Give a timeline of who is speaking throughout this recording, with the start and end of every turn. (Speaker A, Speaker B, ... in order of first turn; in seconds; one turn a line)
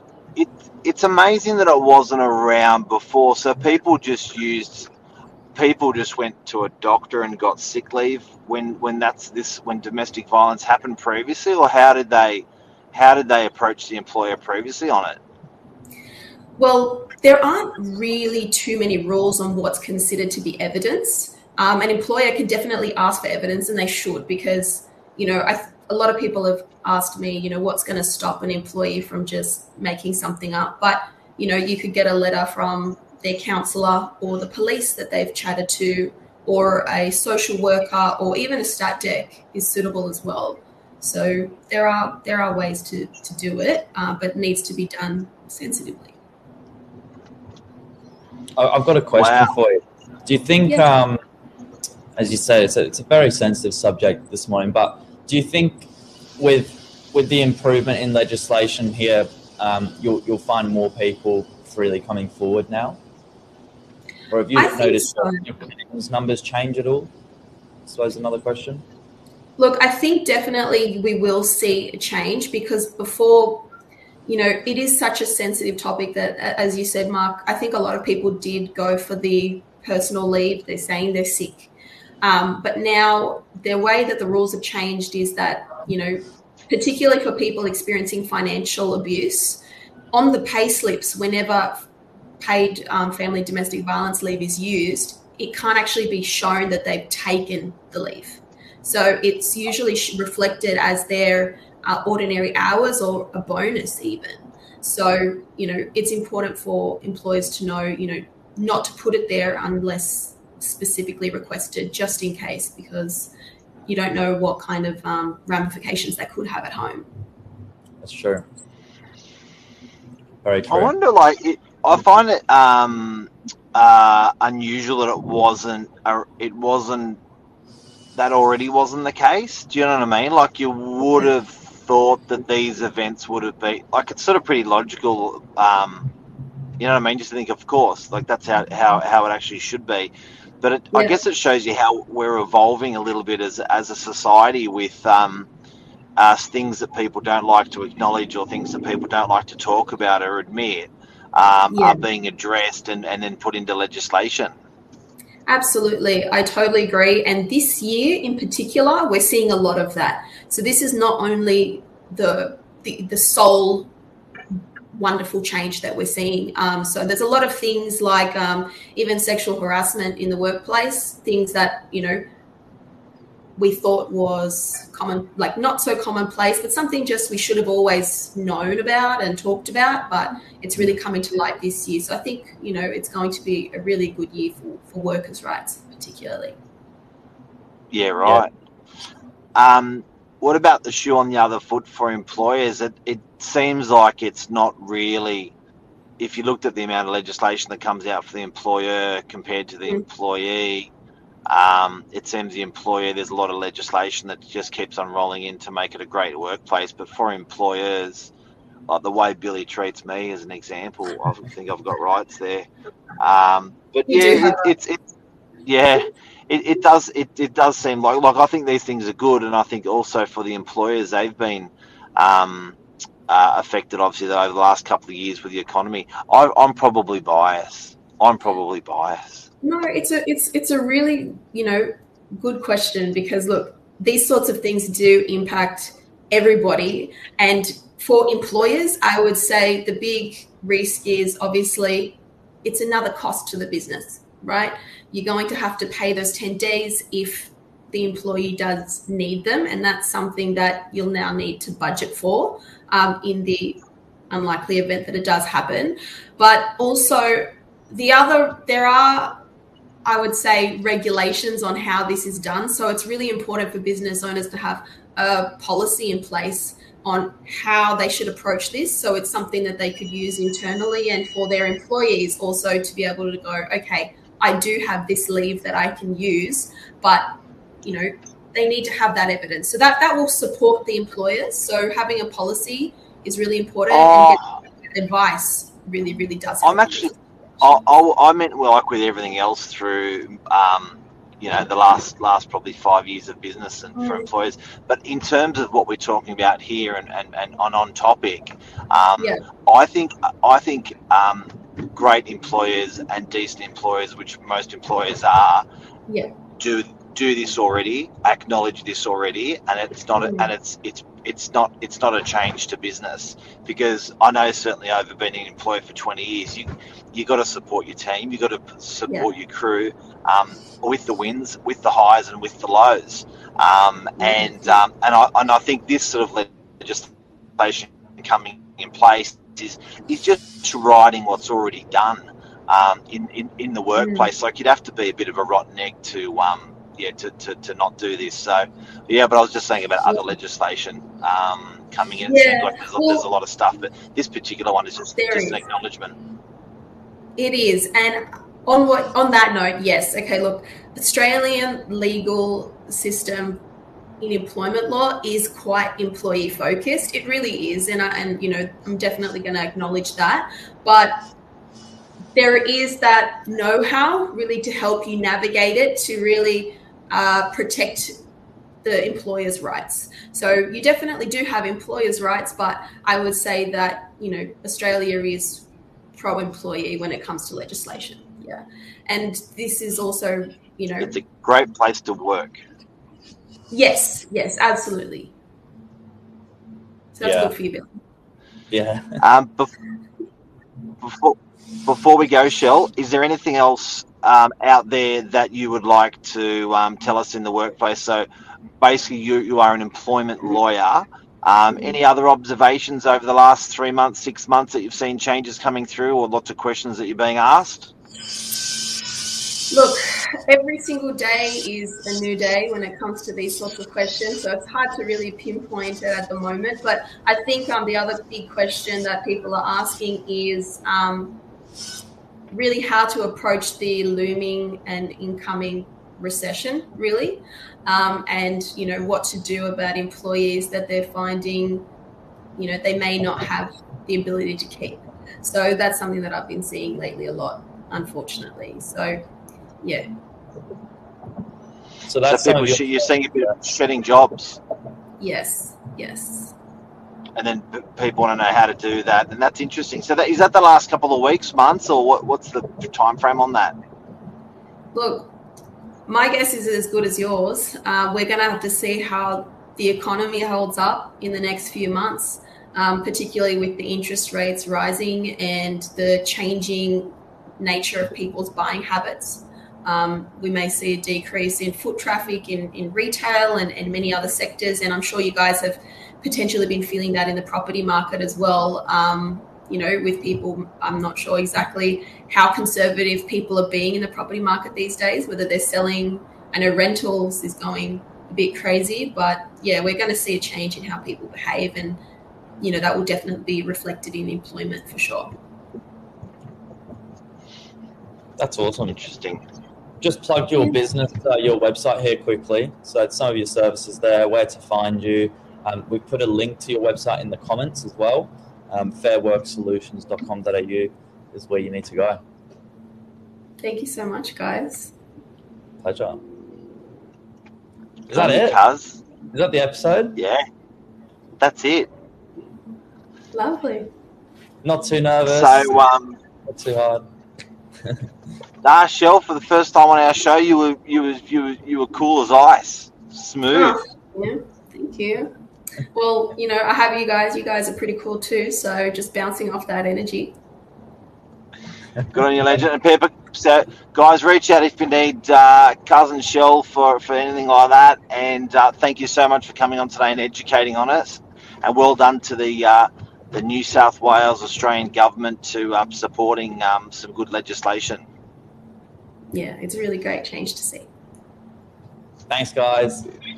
Speaker A: 0.4-4.9
Speaker A: 5.5-15.2
Speaker B: 16.6-46.1
Speaker C: 48.6-51.2
Speaker A: 49.1-49.5
Speaker B: 50.6-50.9
Speaker C: 52.2-63.0
Speaker C: 64.3-67.1
Speaker B: 64.5-65.4
Speaker C: 67.9-68.8
Speaker B: 69.6-73.7
Speaker B: 74.3-81.7
Speaker B: 82.2-89.6
Speaker B: 90.1-91.9
Speaker B: 92.4-113.3
Speaker B: 113.9-117.1
Speaker C: 118.0-118.5
Speaker C: 120.4-120.9
Speaker A: 120.7-127.2
Speaker A: 128.2-136.1
Speaker A: 136.8-145.5
Speaker A: 146.2-154.5
Speaker B: 151.7-152.1
Speaker B: 155.5-163.9
Speaker B: 164.9-172.2
Speaker B: 173.6-186.6
Speaker A: 187.9-188.5
Speaker A: 189.6-195.5
Speaker A: 196.2-200.9
Speaker A: 201.5-208.3
Speaker A: 208.9-212.7
Speaker A: 213.2-215.0
Speaker B: 214.1-214.7
Speaker A: 215.7-222.8
Speaker A: 223.3-229.5
Speaker B: 229.6-259.4
Speaker B: 260.1-277.3
Speaker B: 277.8-287.2
Speaker A: 283.9-284.4
Speaker A: 286.6-305.6
Speaker B: 294.0-294.2
Speaker A: 306.6-346.2
Speaker B: 310.2-310.5
Speaker B: 324.2-324.8
Speaker B: 334.0-334.3
Speaker B: 342.2-343.2
Speaker B: 345.2-345.6
Speaker B: 347.4-353.6
Speaker B: 354.2-361.1
Speaker B: 362.4-368.1
Speaker B: 368.8-381.1
Speaker A: 381.0-382.6
Speaker B: 383.7-385.3
Speaker B: 387.1-387.9
Speaker C: 387.2-387.5
Speaker C: 388.7-389.2
Speaker A: 389.2-389.7
Speaker A: 391.0-398.3
Speaker A: 398.8-407.9
Speaker B: 409.7-421.4
Speaker B: 422.5-431.9
Speaker B: 432.6-439.2
Speaker B: 439.8-440.1
Speaker C: 442.1-442.8
Speaker A: 442.2-444.6
Speaker B: 445.2-446.5
Speaker A: 447.4-453.8
Speaker B: 454.9-455.3
Speaker B: 456.1-492.0
Speaker B: 492.6-495.3
Speaker C: 498.4-499.0
Speaker A: 498.9-499.4
Speaker C: 500.0-512.2
Speaker B: 513.6-514.9
Speaker C: 515.8-516.2
Speaker C: 518.1-518.6
Speaker A: 518.1-519.0
Speaker C: 519.3-520.2
Speaker A: 520.2-520.4
Speaker A: 521.4-521.9
Speaker B: 523.3-523.9
Speaker C: 524.6-525.8
Speaker A: 525.3-526.2
Speaker C: 526.5-527.0
Speaker A: 528.6-533.8
Speaker B: 533.5-535.3
Speaker B: 535.9-540.4
Speaker A: 542.1-558.0
Speaker B: 559.3-560.9
Speaker C: 562.3-563.0